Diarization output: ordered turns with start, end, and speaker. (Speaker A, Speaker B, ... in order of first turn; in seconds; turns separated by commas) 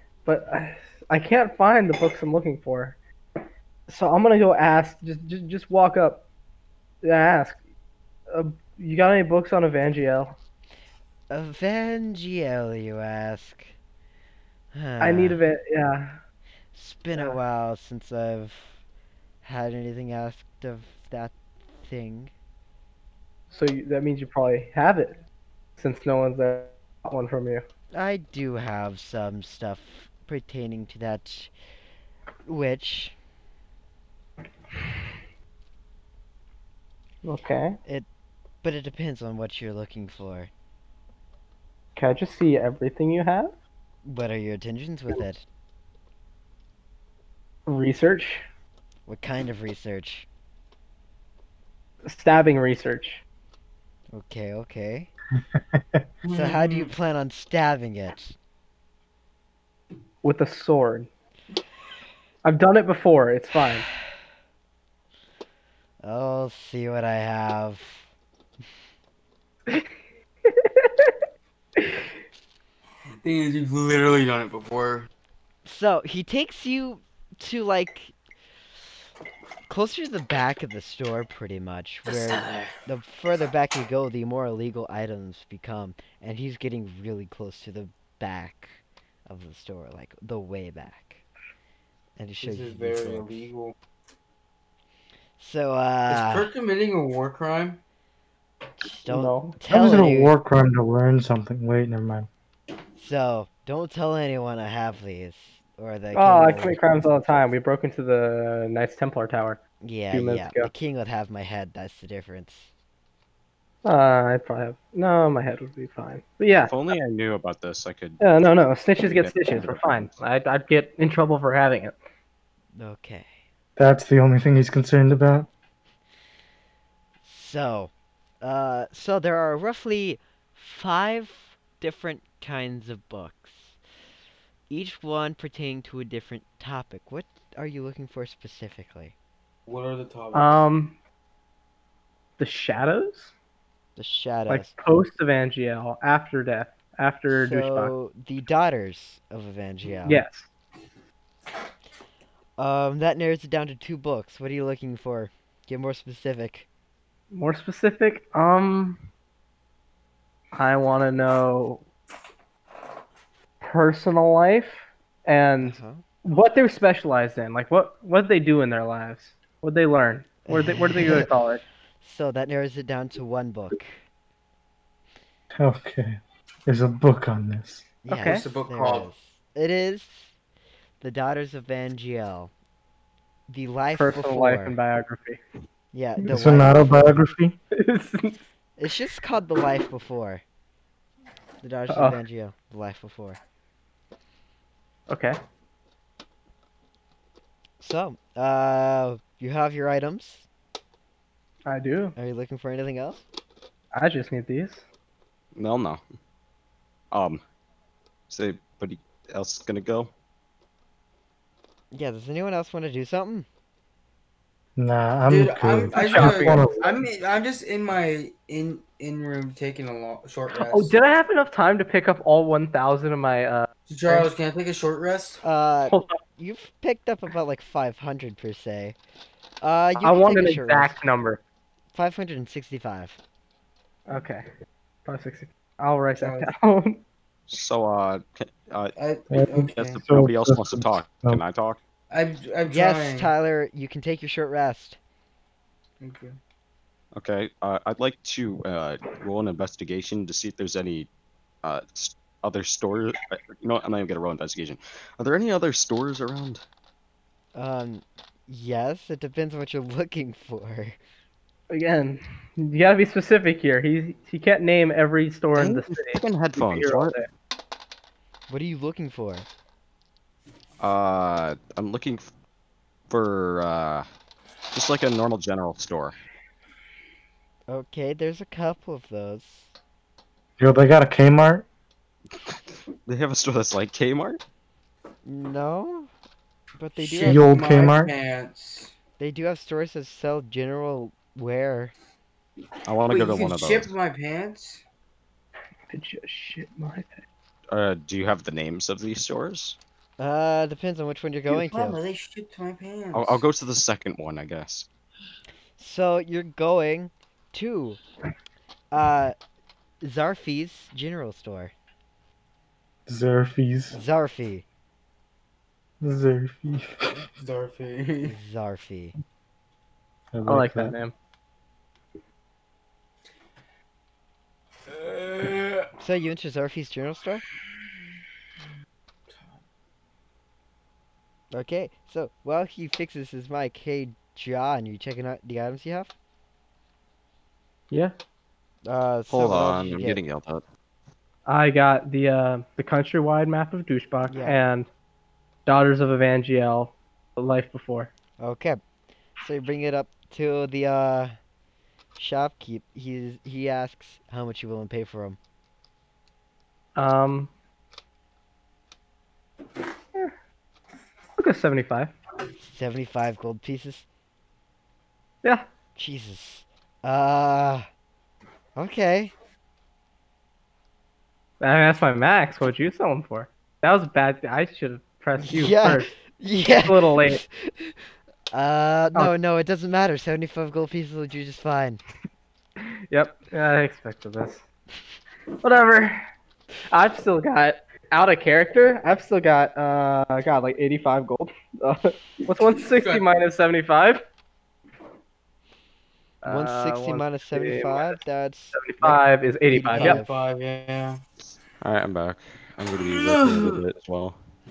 Speaker A: 0.2-3.0, Speaker A: 3.9-6.2, Speaker A: 7.0-7.6, Speaker A: 8.3-10.4, Speaker B: 11.3-13.7, Speaker B: 14.7-15.4, Speaker A: 15.0-16.2, Speaker B: 16.7-18.8, Speaker B: 19.4-22.3, Speaker A: 23.5-25.2, Speaker A: 25.8-27.6, Speaker B: 27.9-31.5, Speaker B: 32.5-33.1, Speaker A: 37.2-37.8, Speaker B: 38.6-40.5, Speaker A: 42.0-43.5, Speaker B: 44.0-45.4, Speaker A: 47.7-48.4, Speaker B: 49.1-50.3, Speaker A: 52.0-53.2, Speaker B: 54.1-55.1, Speaker C: 55.8-56.0, Speaker D: 56.2-56.9, Speaker B: 56.3-58.4, Speaker A: 60.2-61.1, Speaker A: 62.4-63.9, Speaker B: 66.0-68.1, Speaker A: 70.5-71.2, Speaker A: 71.8-72.1, Speaker D: 73.2-75.1, Speaker B: 75.7-78.2, Speaker B: 79.7-91.2, Speaker D: 82.1-82.7, Speaker B: 92.2-93.5, Speaker D: 92.4-93.8, Speaker B: 95.4-96.5, Speaker D: 96.1-97.8, Speaker B: 98.8-100.3, Speaker A: 99.0-99.6, Speaker C: 99.7-102.3, Speaker B: 103.0-106.8, Speaker A: 106.1-109.6, Speaker B: 109.8-112.7, Speaker A: 110.1-110.7, Speaker A: 113.8-116.8, Speaker E: 116.7-120.2, Speaker A: 118.2-122.0, Speaker B: 122.7-123.4, Speaker C: 123.8-125.5, Speaker B: 127.2-133.8, Speaker B: 134.7-139.2, Speaker D: 139.7-140.7, Speaker A: 140.3-141.0, Speaker A: 142.4-143.3, Speaker B: 144.0-144.7, Speaker A: 144.5-147.9, Speaker B: 147.3-150.2, Speaker A: 150.0-150.5, Speaker B: 152.6-156.7, Speaker A: 157.3-159.0, Speaker A: 160.5-161.8, Speaker A: 163.6-171.6, Speaker B: 165.6-166.0, Speaker B: 170.5-171.3, Speaker B: 172.0-174.0, Speaker C: 175.5-178.0, Speaker B: 178.0-180.3, Speaker A: 178.1-178.5, Speaker D: 178.2-179.1, Speaker B: 181.0-182.5, Speaker B: 183.5-184.8, Speaker A: 183.9-185.4, Speaker B: 185.9-187.1, Speaker C: 186.3-187.6, Speaker A: 187.7-188.4, Speaker B: 188.8-190.4, Speaker B: 191.6-193.4, Speaker A: 191.9-192.2, Speaker A: 195.1-195.4, Speaker B: 197.8-200.5, Speaker A: 201.7-202.2, Speaker B: 202.2-203.2, Speaker A: 203.9-204.8, Speaker E: 205.6-206.0, Speaker E: 207.1-207.4, Speaker E: 208.3-210.1, Speaker B: 211.9-213.5, Speaker C: 214.8-217.0, Speaker D: 215.3-221.0, Speaker A: 215.9-216.7, Speaker A: 220.6-223.7, Speaker D: 223.9-225.4, Speaker B: 225.4-229.0, Speaker A: 225.9-226.2, Speaker B: 229.6-231.0, Speaker A: 230.0-231.4, Speaker B: 231.9-233.2, Speaker A: 234.1-234.5, Speaker A: 235.1-237.0, Speaker D: 236.1-236.5, Speaker E: 237.5-238.9, Speaker D: 239.0-239.9, Speaker C: 239.3-241.4, Speaker E: 239.7-241.8, Speaker D: 242.1-243.3, Speaker B: 242.7-245.0, Speaker D: 246.0-246.4, Speaker E: 247.2-251.1, Speaker E: 251.6-256.6, Speaker B: 257.6-261.0, Speaker A: 261.7-267.3, Speaker E: 265.6-267.2, Speaker B: 268.5-269.5, Speaker E: 270.8-272.3, Speaker E: 273.1-274.1, Speaker E: 274.7-276.1, Speaker B: 277.7-279.7, Speaker C: 280.6-281.7, Speaker E: 282.4-284.4, Speaker B: 285.2-286.1, Speaker B: 286.8-287.5, Speaker D: 287.0-288.9, Speaker C: 287.2-288.1, Speaker B: 289.2-291.9, Speaker E: 292.9-293.9, Speaker D: 293.1-294.8, Speaker A: 295.9-297.2, Speaker E: 297.7-299.8, Speaker B: 300.2-302.0, Speaker D: 301.5-303.4, Speaker E: 303.1-304.9, Speaker B: 305.8-308.0, Speaker B: 308.9-309.4, Speaker B: 310.0-311.7, Speaker C: 313.1-314.0, Speaker B: 313.9-314.6, Speaker C: 316.0-317.3, Speaker D: 317.4-318.4, Speaker B: 318.2-319.1, Speaker C: 320.3-320.9, Speaker A: 320.5-321.1, Speaker D: 324.9-325.9, Speaker B: 326.0-327.4, Speaker B: 331.5-336.1, Speaker B: 338.9-340.2, Speaker E: 339.3-340.6, Speaker A: 341.5-344.9, Speaker B: 344.3-344.6, Speaker A: 345.7-348.1, Speaker B: 348.4-348.8, Speaker B: 349.4-351.4, Speaker B: 352.2-355.4, Speaker A: 357.0-357.5, Speaker A: 361.4-362.1, Speaker B: 362.6-364.1, Speaker B: 366.0-367.9, Speaker B: 368.8-369.3, Speaker A: 371.6-376.1, Speaker B: 375.4-378.0, Speaker A: 376.8-377.4, Speaker B: 378.5-382.0, Speaker A: 382.8-384.6, Speaker A: 385.6-386.3, Speaker A: 386.9-394.2, Speaker D: 392.5-393.3, Speaker A: 396.4-398.2, Speaker B: 396.4-400.4, Speaker A: 398.7-400.2, Speaker D: 399.9-401.2, Speaker E: 401.8-404.4, Speaker D: 403.1-403.8